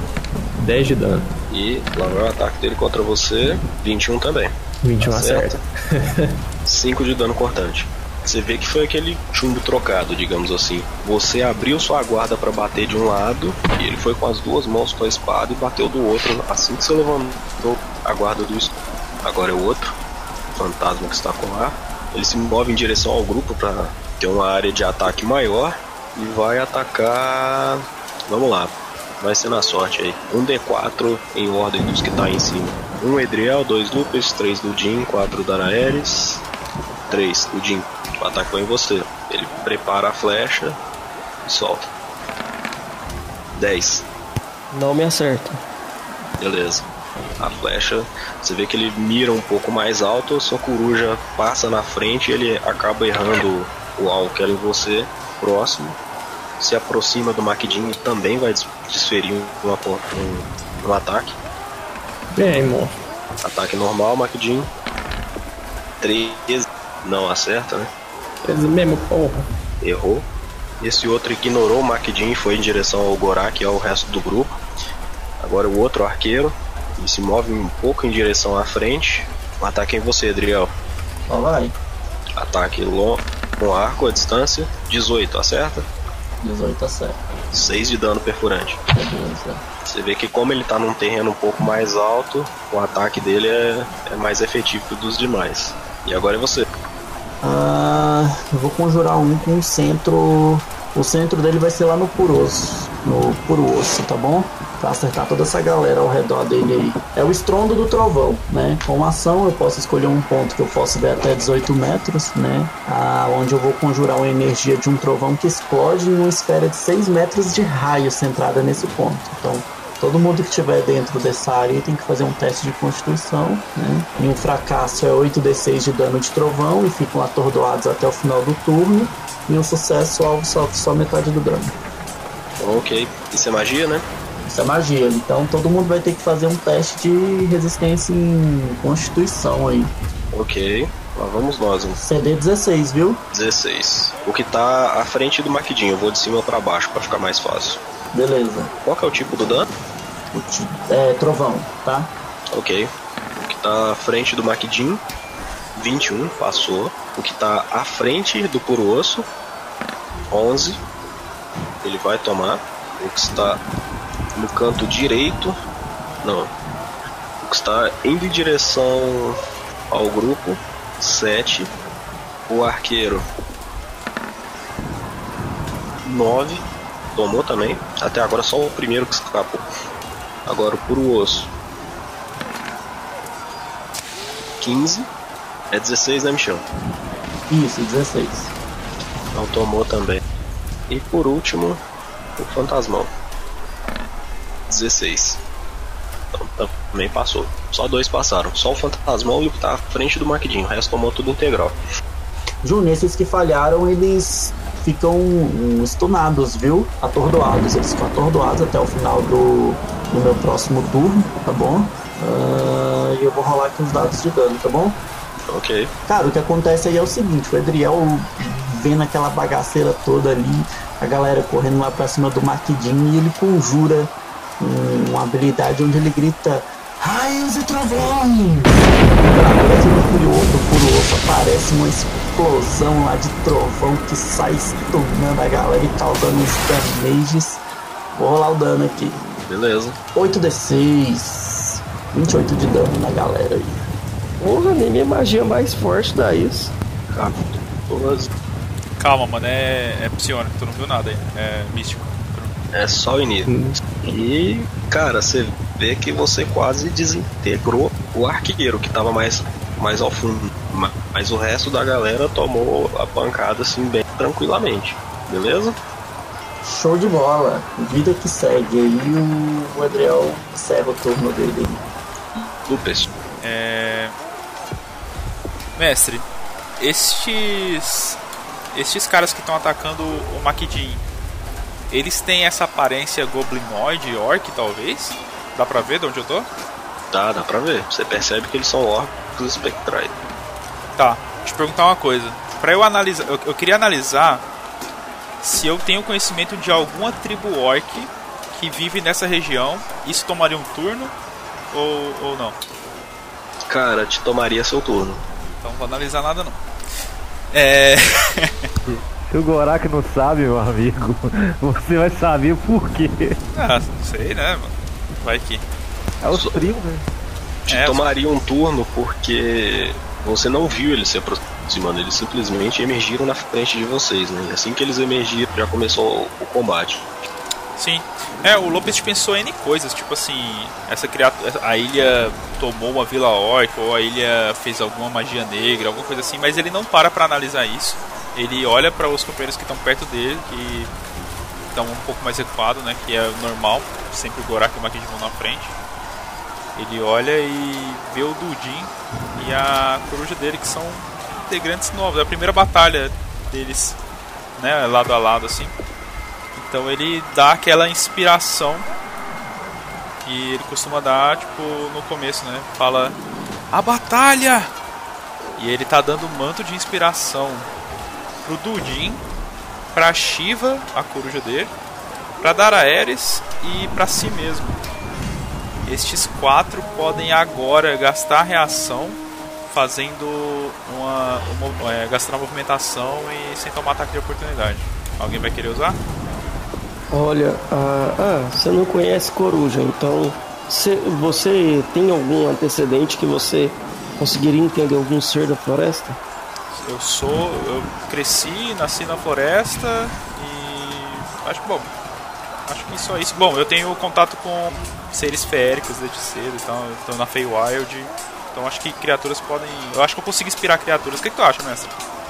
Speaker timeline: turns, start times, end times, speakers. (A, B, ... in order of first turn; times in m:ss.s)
0:00.6-0:01.3 A
0:01.5-0:05.6 B
0:04.8-0:06.4 A
0:06.7-0:20.0 B
0:20.6-0:36.4 B
0:37.1-0:40.8 B
0:41.4-0:41.9 B
0:43.6-0:44.1 B
0:44.7-0:45.6 C
0:46.4-0:46.8 B
0:47.4-0:56.0 B
0:56.6-1:01.4 B
1:02.3-1:03.0 A
1:03.4-1:04.7 B
1:06.0-1:07.9 B
1:08.4-1:09.5 A
1:09.8-1:10.3 B
1:10.8-1:14.6 B
1:15.4-1:20.8 B
1:21.3-1:21.8 D
1:22.4-1:25.9 B
1:26.4-1:27.2 D
1:27.5-1:28.8 B
1:28.9-1:29.6 D
1:29.9-1:36.7 B
1:37.4-2:11.7 D
2:12.6-2:14.1 B
2:14.5-2:19.9 D
2:20.3-2:22.0 B
2:22.0-2:23.2 D
2:23.3-2:27.8 B
2:28.1-2:28.7 D
2:28.8-2:29.7 B
2:30.3-2:32.1 D
2:32.5-2:35.0 B
2:35.8-2:39.3 B
2:40.3-2:40.8 B
2:41.8-2:43.6 B
2:44.4-2:45.6 B
2:46.2-2:46.5 B
2:47.4-2:49.4 B
2:49.9-2:51.7 B
2:52.5-2:53.3 B
2:56.0-2:59.6 B
3:00.5-3:01.5 B
3:04.6-3:05.1 B
3:05.7-3:06.6 B
3:07.5-3:08.5 D
3:09.3-3:10.2 B
3:10.9-3:11.8 B
3:12.4-3:13.1 B
3:14.7-3:15.4 B
3:16.3-3:21.8 B
3:22.6-3:35.0 D
3:35.5-3:35.9 B
3:36.1-3:57.6 D
3:58.1-3:59.2 D
3:59.4-4:00.0 B
4:00.2-4:03.8 D
4:04.4-4:06.7 C
4:07.1-4:08.3 B
4:09.0-4:12.5 E
4:12.7-4:25.8 B
4:13.5-4:13.8 A
4:26.6-4:31.8 D
4:32.4-4:33.1 B
4:33.4-4:34.2 E
4:35.8-4:36.3 E
4:36.8-4:38.2 E
4:38.7-4:41.0 E
4:41.9-4:46.5 E
4:47.1-4:50.2 B
4:51.0-4:54.4 E
4:55.4-5:01.1 E
5:01.7-5:02.6 E
5:03.7-5:05.2 B
5:05.6-5:06.6 E
5:07.5-5:08.5 E
5:08.9-5:13.4 F
5:13.5-5:15.6 E
5:16.2-5:17.1 F
5:16.3-5:16.6 B
5:17.7-5:27.1 B
5:17.7-5:18.0 E
5:27.8-5:40.9 E
5:41.7-5:45.8 E
5:46.8-5:54.0 E
5:54.6-5:55.7 E
5:56.6-5:58.9 E
6:00.2-6:03.2 E
6:03.7-6:04.7 E
6:05.6-6:07.7 E
6:08.4-6:09.2 E
6:09.9-6:11.7 E
6:12.4-6:14.8 E
6:15.8-6:26.0 E
6:27.1-6:36.2 C
6:36.7-6:41.9 E
6:42.7-6:51.9 E